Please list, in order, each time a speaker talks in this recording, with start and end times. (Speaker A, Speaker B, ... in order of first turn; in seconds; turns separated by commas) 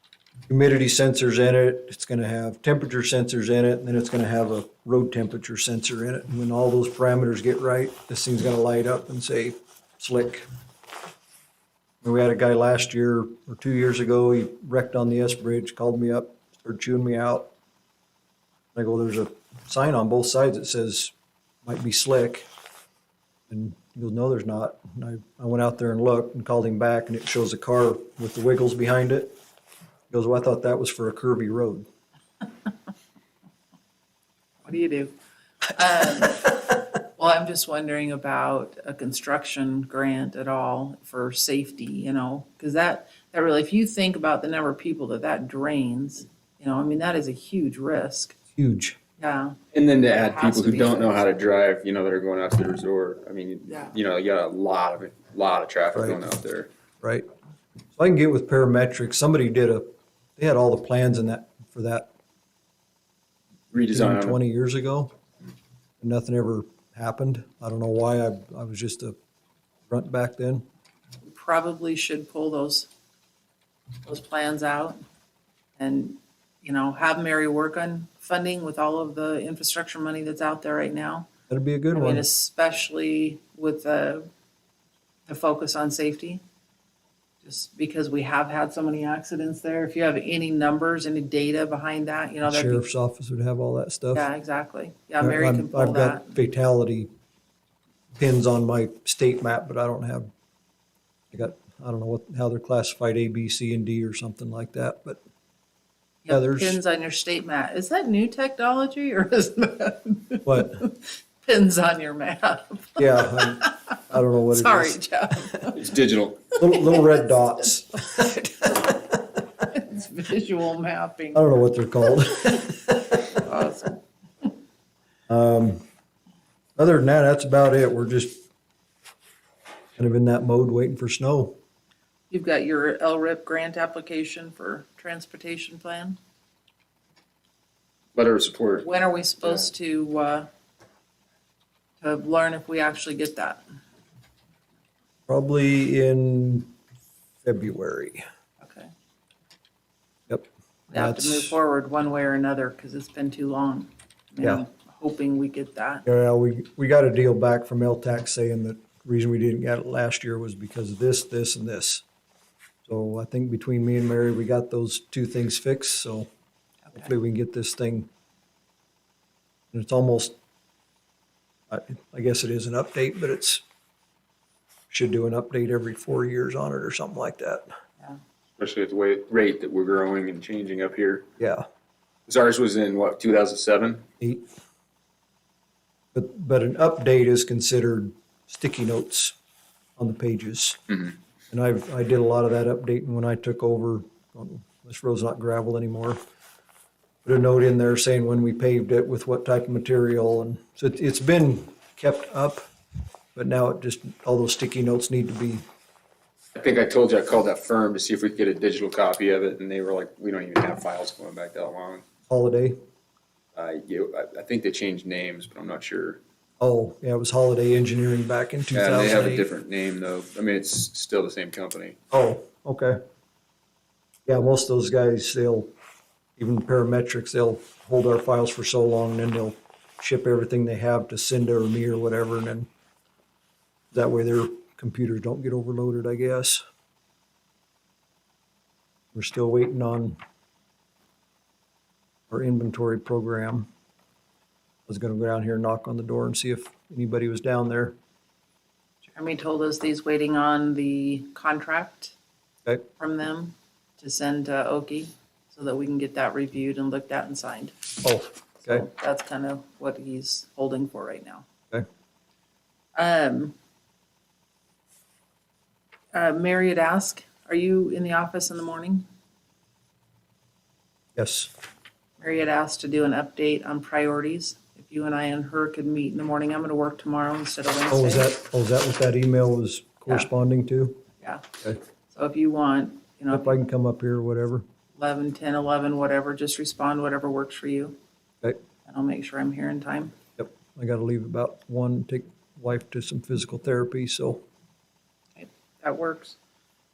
Speaker A: 0.5-10.4, Speaker A: 12.0-17.5, Speaker A: 18.7-21.1, Speaker A: 21.6-22.5, Speaker A: 23.5-29.3, Speaker A: 30.1-31.9, Speaker B: 34.6-35.1, Speaker B: 35.7-48.4, Speaker A: 48.5-49.0, Speaker B: 49.2-51.2, Speaker C: 49.7-56.7, Speaker A: 55.9-56.2, Speaker A: 57.0-57.2, Speaker A: 58.0-62.1, Speaker C: 63.7-64.4, Speaker A: 63.9-65.1, Speaker A: 66.0-69.2, Speaker A: 69.9-70.6, Speaker B: 71.2-72.9, Speaker B: 74.0-75.0, Speaker B: 75.8-81.3, Speaker A: 81.5-82.2, Speaker B: 81.9-84.3, Speaker B: 85.3-86.4, Speaker B: 87.4-92.8, Speaker A: 92.5-94.3, Speaker B: 94.1-96.3, Speaker A: 95.2-97.1, Speaker A: 98.2-100.3, Speaker A: 101.3-105.2, Speaker B: 106.2-115.8, Speaker A: 106.3-106.8, Speaker A: 110.5-110.8, Speaker A: 113.0-115.0, Speaker C: 115.7-116.5, Speaker A: 116.6-118.1, Speaker B: 116.7-121.6, Speaker A: 121.3-123.2, Speaker B: 122.5-124.5, Speaker A: 125.3-125.8, Speaker A: 126.8-128.4, Speaker A: 130.0-131.6, Speaker B: 132.3-136.2, Speaker C: 138.1-138.9, Speaker B: 138.8-140.5, Speaker B: 142.0-143.6, Speaker A: 145.3-146.7, Speaker A: 147.4-148.2, Speaker B: 148.6-148.9, Speaker A: 150.3-151.6, Speaker B: 150.9-156.0, Speaker A: 156.1-162.0, Speaker A: 162.8-166.3, Speaker A: 166.9-168.1, Speaker A: 169.7-170.3, Speaker A: 171.7-173.6, Speaker A: 174.9-177.6, Speaker C: 178.6-181.3, Speaker A: 181.4-181.6, Speaker C: 182.3-184.0, Speaker A: 184.2-184.4, Speaker A: 186.1-189.3, Speaker A: 190.0-190.8, Speaker A: 191.5-196.2, Speaker A: 197.2-202.6, Speaker A: 203.3-205.6, Speaker C: 206.5-212.0, Speaker A: 212.3-212.8, Speaker C: 213.5-216.2, Speaker A: 216.6-219.5, Speaker C: 218.7-222.0, Speaker A: 222.1-223.0, Speaker A: 224.2-225.7, Speaker A: 226.4-232.7, Speaker A: 233.9-236.6, Speaker A: 239.1-240.2, Speaker A: 242.3-243.7, Speaker A: 244.9-247.9, Speaker B: 249.1-252.1, Speaker B: 253.0-258.0, Speaker A: 258.0-258.9, Speaker B: 258.6-261.4, Speaker B: 262.9-263.5, Speaker B: 266.1-269.1, Speaker A: 271.1-271.5, Speaker B: 272.2-278.3, Speaker A: 277.9-281.0, Speaker B: 282.1-283.5, Speaker A: 283.3-284.6, Speaker B: 284.9-287.9, Speaker B: 288.9-290.1, Speaker A: 290.4-294.4, Speaker B: 295.4-296.4